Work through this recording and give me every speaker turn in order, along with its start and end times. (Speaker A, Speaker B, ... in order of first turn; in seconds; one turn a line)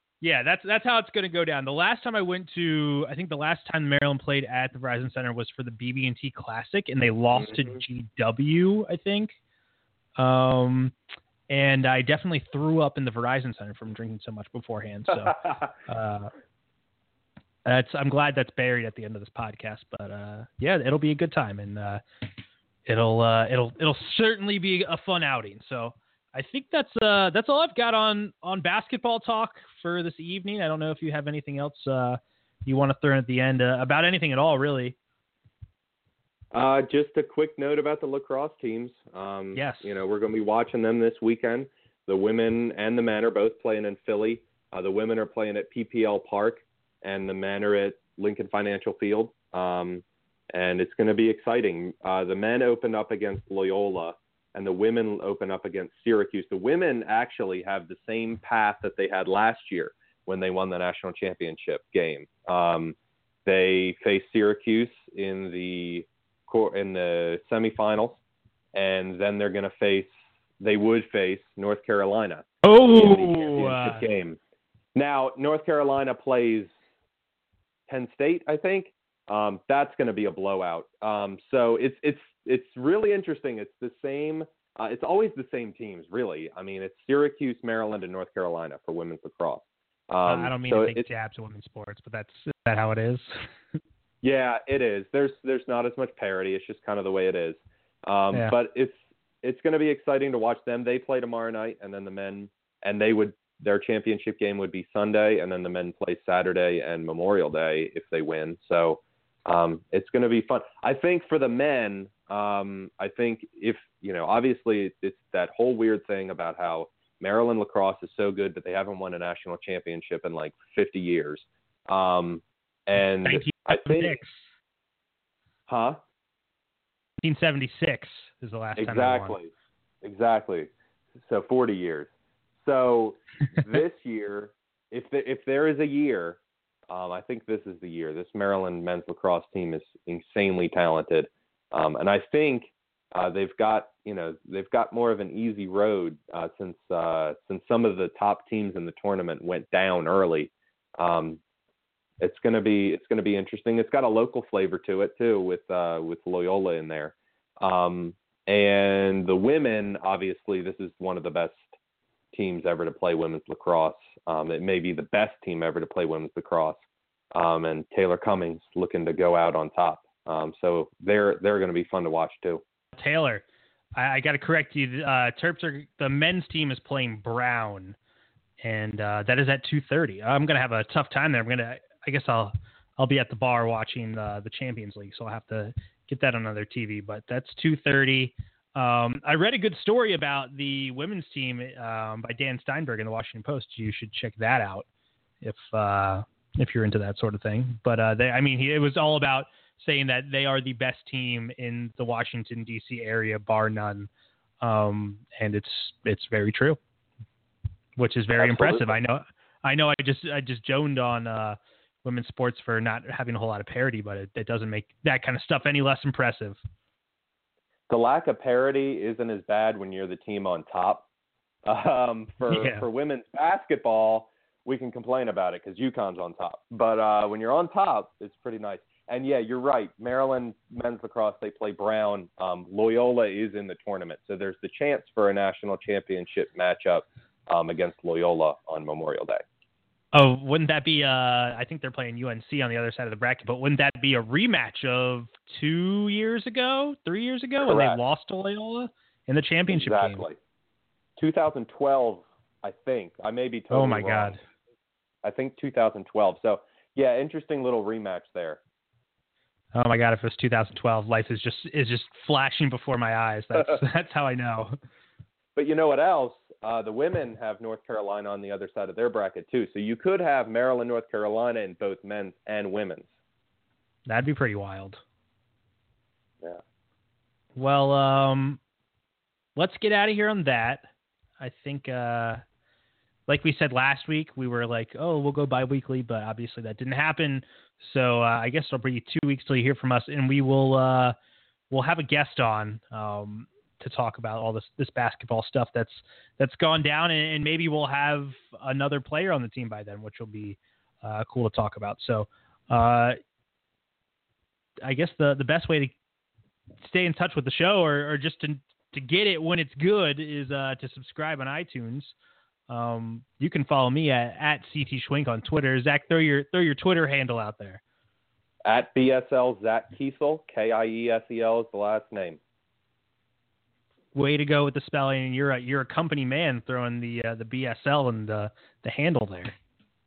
Speaker A: 0.2-9.3
Speaker B: 7.3-7.8
Speaker A: 10.2-10.9
Speaker A: 11.5-16.3
Speaker A: 17.7-22.0
Speaker A: 22.9-35.0
Speaker B: 36.5-68.2
Speaker A: 39.5-39.9
Speaker B: 68.7-74.4
Speaker A: 72.6-74.0
Speaker B: 75.0-76.7
Speaker B: 77.9-91.0
Speaker A: 90.3-93.4
Speaker B: 94.2-124.2
Speaker A: 123.2-124.4
Speaker B: 125.7-126.0
Speaker A: 127.2-129.4
Speaker B: 128.8-129.5
Speaker B: 130.0-151.4
Speaker B: 152.2-161.7
Speaker B: 162.3-166.8
Speaker B: 167.3-172.6
Speaker A: 173.0-173.4
Speaker A: 174.0-178.0
Speaker A: 178.6-194.9
Speaker A: 195.4-204.1
Speaker A: 204.6-206.8
Speaker A: 208.0-216.6
Speaker B: 208.4-208.9
Speaker B: 217.9-221.1
Speaker B: 221.7-239.4
Speaker A: 222.5-222.8
Speaker A: 240.1-250.2
Speaker B: 247.6-248.0
Speaker B: 249.7-250.4
Speaker B: 251.2-254.4
Speaker A: 253.7-254.4
Speaker B: 255.2-258.6
Speaker A: 259.7-264.8
Speaker B: 265.6-273.1
Speaker A: 274.1-275.0
Speaker A: 277.6-278.6
Speaker A: 279.6-280.9
Speaker A: 281.4-282.4
Speaker A: 283.3-291.1
Speaker A: 291.7-303.2
Speaker A: 304.8-306.0
Speaker A: 306.8-312.1
Speaker A: 312.7-317.8
Speaker B: 318.6-322.4
Speaker A: 324.1-329.6